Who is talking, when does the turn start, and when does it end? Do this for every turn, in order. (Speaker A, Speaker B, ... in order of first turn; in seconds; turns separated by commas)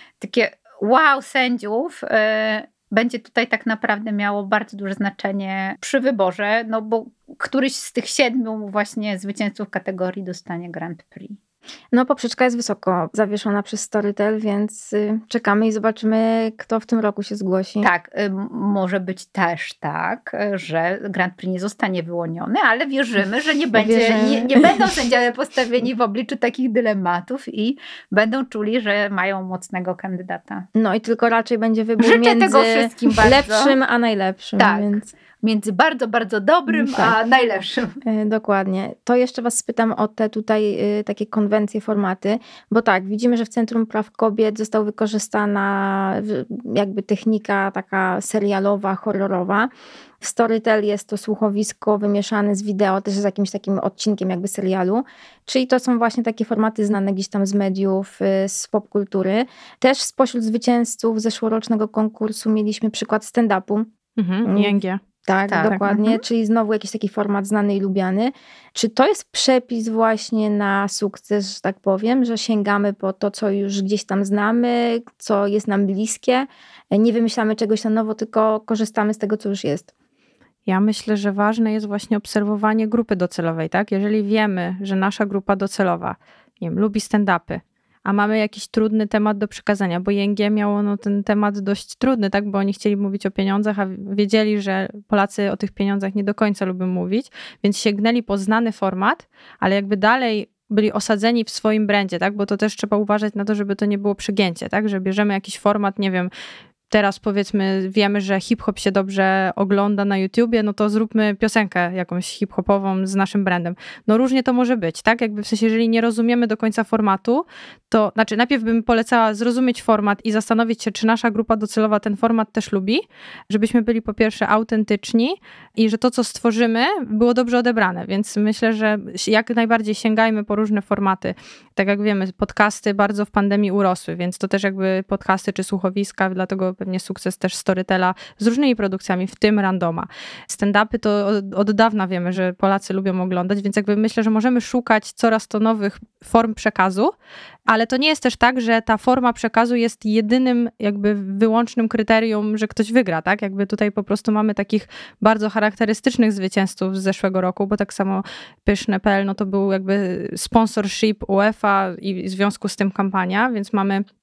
Speaker A: 0.2-11.4, Speaker B: 11.9-17.9, Speaker A: 17.8-30.7, Speaker B: 23.8-24.7, Speaker B: 30.8-35.1, Speaker A: 32.0-33.8, Speaker A: 34.6-38.0, Speaker B: 36.7-37.1, Speaker B: 38.0-63.9, Speaker C: 64.2-65.0, Speaker B: 64.5-79.9, Speaker A: 65.5-66.2, Speaker C: 80.7-106.3, Speaker C: 106.9-147.1, Speaker C: 147.7-164.0